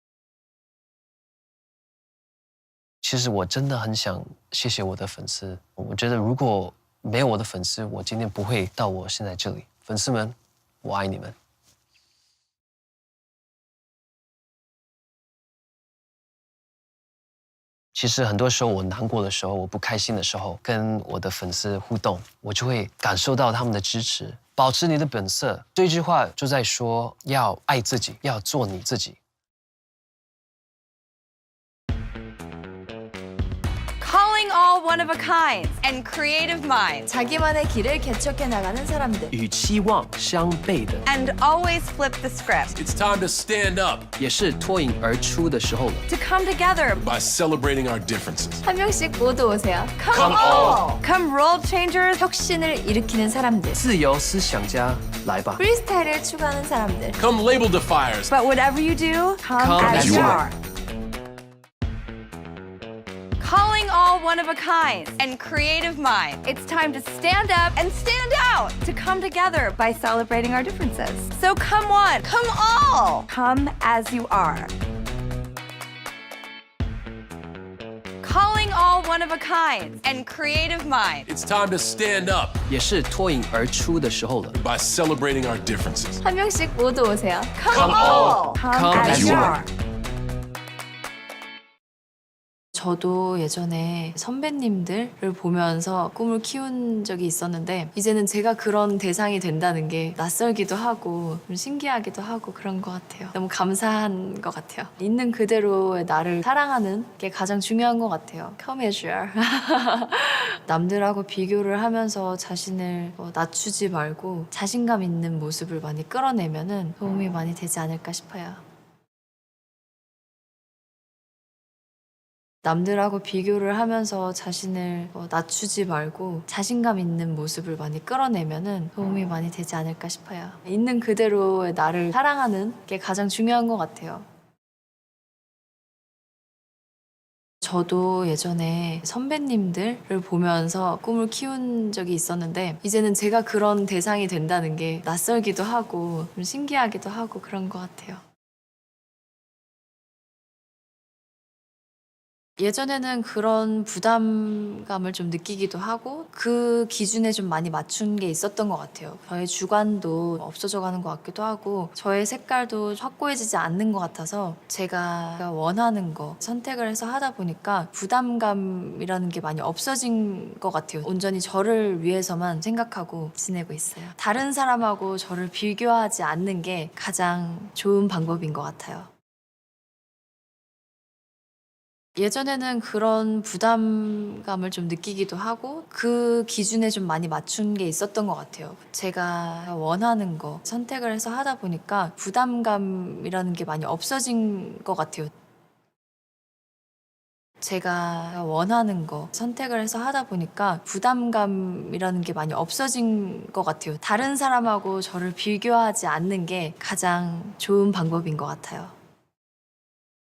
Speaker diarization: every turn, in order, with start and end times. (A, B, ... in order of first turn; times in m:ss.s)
0:03.0-0:11.4 A
0:17.9-0:29.2 A
0:34.0-0:37.1 B
0:37.1-0:39.3 C
0:39.3-0:41.0 A
0:41.0-0:42.8 B
0:42.8-0:44.1 D
0:44.2-0:46.1 A
0:46.1-0:47.0 B
0:47.0-0:48.6 D
0:48.6-0:50.0 C
0:50.0-0:52.2 B
0:50.1-0:50.8 D
0:50.2-0:50.8 A
0:52.2-0:53.8 C
0:53.7-0:55.6 A
0:55.6-0:57.2 C
0:57.2-0:58.3 D
0:58.3-1:00.6 B
0:59.6-1:00.5 A
0:59.8-1:00.4 D
1:03.4-1:14.7 B
1:18.2-1:21.3 B
1:21.3-1:22.6 D
1:22.7-1:24.6 A
1:24.5-1:26.2 D
1:26.2-1:27.5 C
1:27.6-1:29.7 B
1:27.7-1:28.4 D
1:27.9-1:29.6 A
1:29.0-1:29.6 D
1:32.8-1:58.6 C
2:02.6-2:14.3 C
2:17.6-2:28.2 C
2:32.6-2:59.1 C
3:02.2-3:15.3 C
3:17.6-3:28.9 C